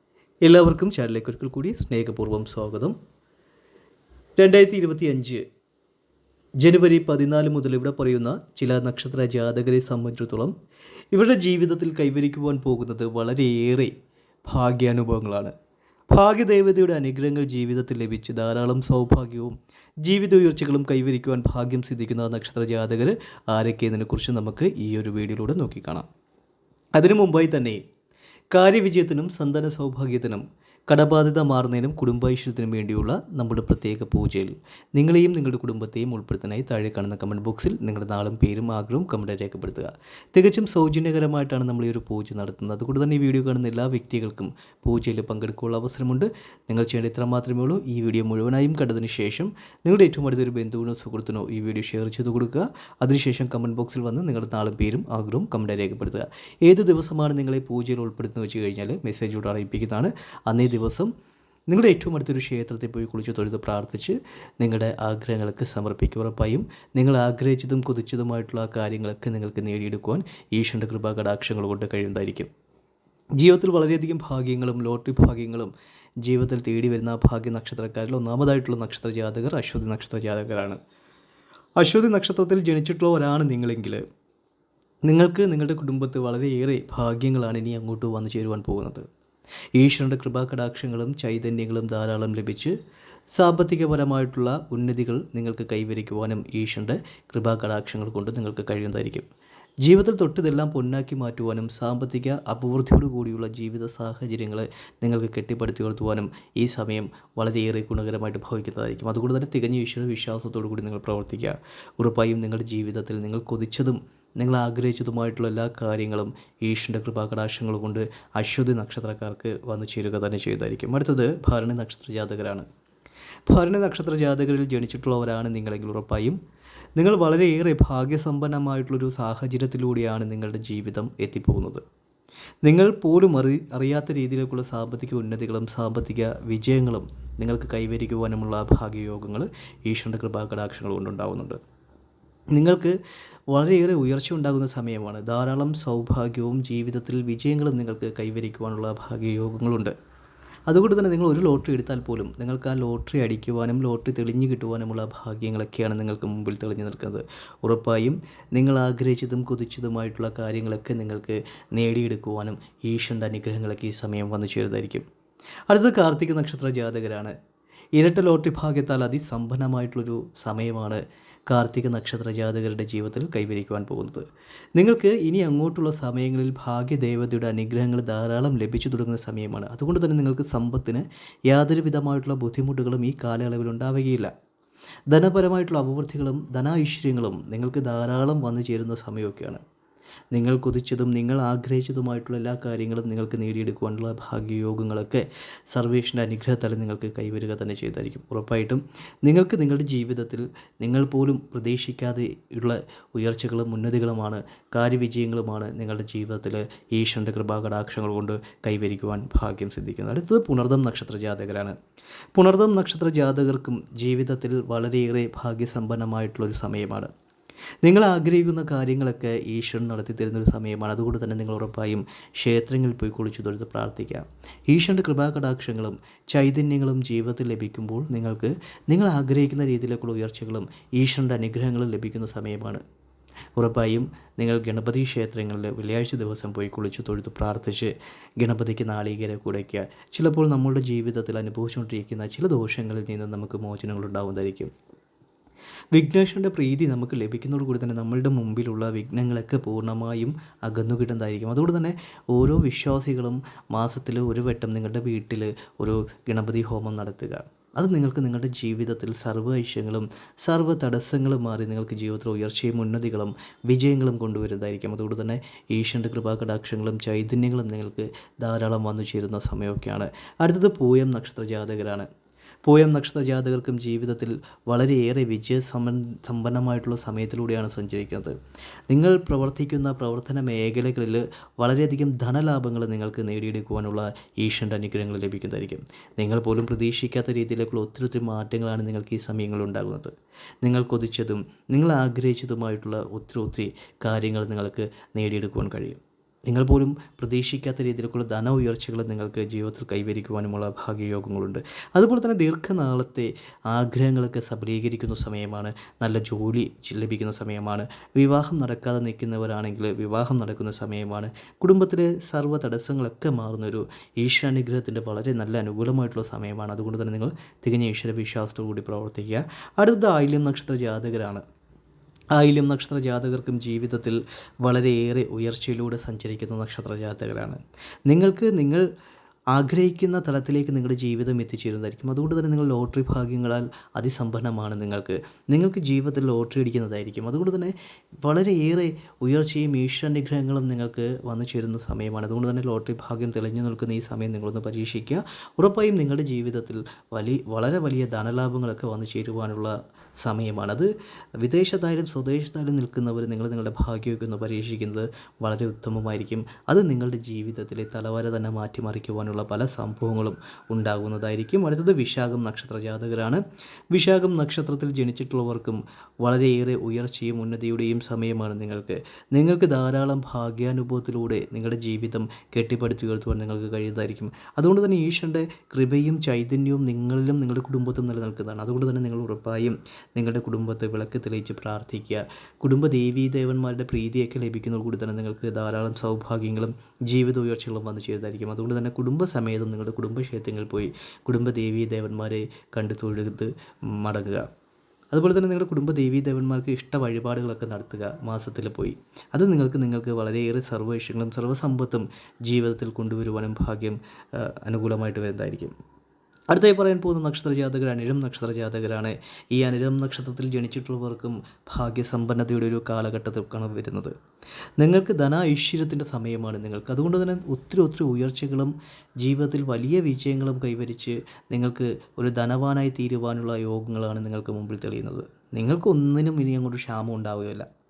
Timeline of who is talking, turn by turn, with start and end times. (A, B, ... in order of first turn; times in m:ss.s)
0:00.4-0:02.9 A
0:04.4-0:05.4 A
0:06.6-0:10.5 A
0:11.1-0:15.5 A
0:16.1-0:26.1 A
0:27.0-0:27.8 A
0:28.5-1:01.1 A
1:01.7-1:12.5 A
1:13.4-1:15.7 A
1:16.2-1:20.8 A
1:21.8-1:24.0 A
1:25.1-1:29.1 A
1:29.8-1:32.8 A
1:33.4-1:39.3 A
1:39.8-2:02.6 A
2:03.5-2:06.4 A
2:07.0-2:11.8 A
2:12.6-2:21.6 A
2:22.5-2:23.0 A
2:23.5-2:29.9 A
2:30.7-2:45.0 A
2:45.7-2:47.3 A
2:48.0-3:04.3 A
3:05.1-3:09.6 A
3:10.3-3:31.8 A
3:32.3-3:37.1 A
3:37.8-3:52.8 A
3:53.6-4:04.7 A
4:05.9-4:32.1 A
4:32.6-4:38.4 A
4:38.9-4:50.1 A
4:50.6-5:21.4 A
5:22.3-5:28.8 A
5:29.5-5:50.9 A
5:51.4-6:03.4 A
6:03.9-6:34.4 A
6:35.1-6:45.7 A
6:46.5-6:54.1 A
6:54.8-7:07.6 A